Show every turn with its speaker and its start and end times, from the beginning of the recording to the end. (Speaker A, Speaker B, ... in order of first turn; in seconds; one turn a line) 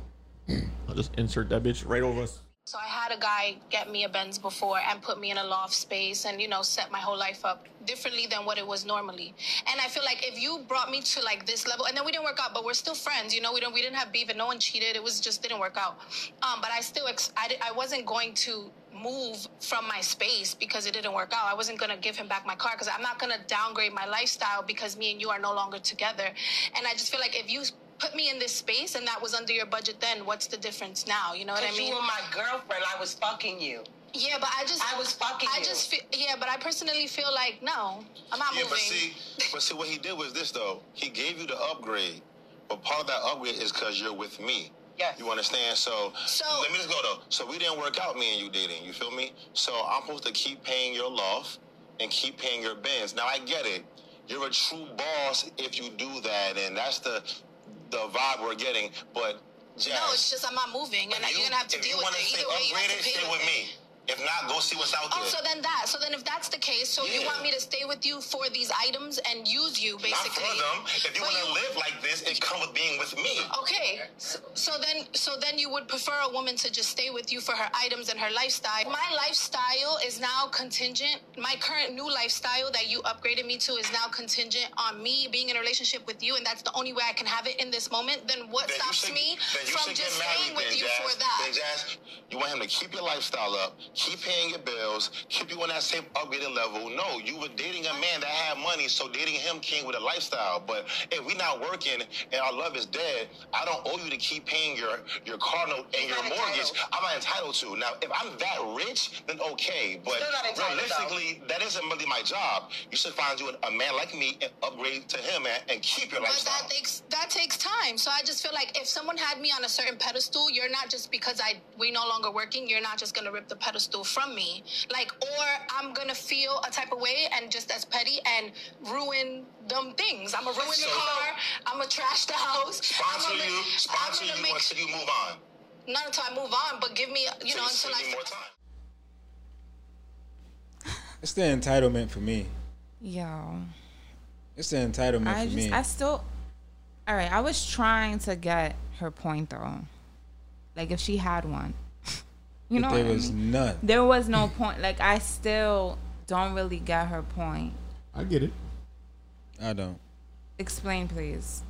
Speaker A: 0.8-2.4
Speaker B: 2.6-32.0
Speaker C: 31.5-33.9
Speaker B: 34.1-39.1
Speaker C: 34.8-35.9
Speaker D: 38.5-57.2
Speaker C: 45.0-45.3
Speaker B: 46.3-46.7
Speaker D: 57.8-60.3
Speaker B: 59.9-63.6
Speaker D: 61.1-65.4
Speaker B: 65.1-71.6
Speaker D: 67.0-67.5
Speaker D: 70.0-73.5
Speaker B: 73.5-91.5
Speaker D: 88.6-116.7
Speaker C: 105.9-106.8
Speaker C: 110.1-111.2
Speaker B: 116.2-134.7
Speaker D: 130.6-131.3
Speaker D: 132.8-135.4
Speaker B: 135.9-138.3
Speaker D: 137.4-138.5
Speaker E: 141.2-142.5
Speaker F: 143.0-143.7
Speaker E: 144.6-145.8
Speaker F: 145.2-146.2
Speaker F: 147.1-149.9
Speaker F: 150.7-151.8
Speaker F: 152.7-157.8
Speaker E: 152.8-153.8
Speaker A: 158.1-158.6
Speaker E: 159.6-160.0
Speaker F: 160.6-161.6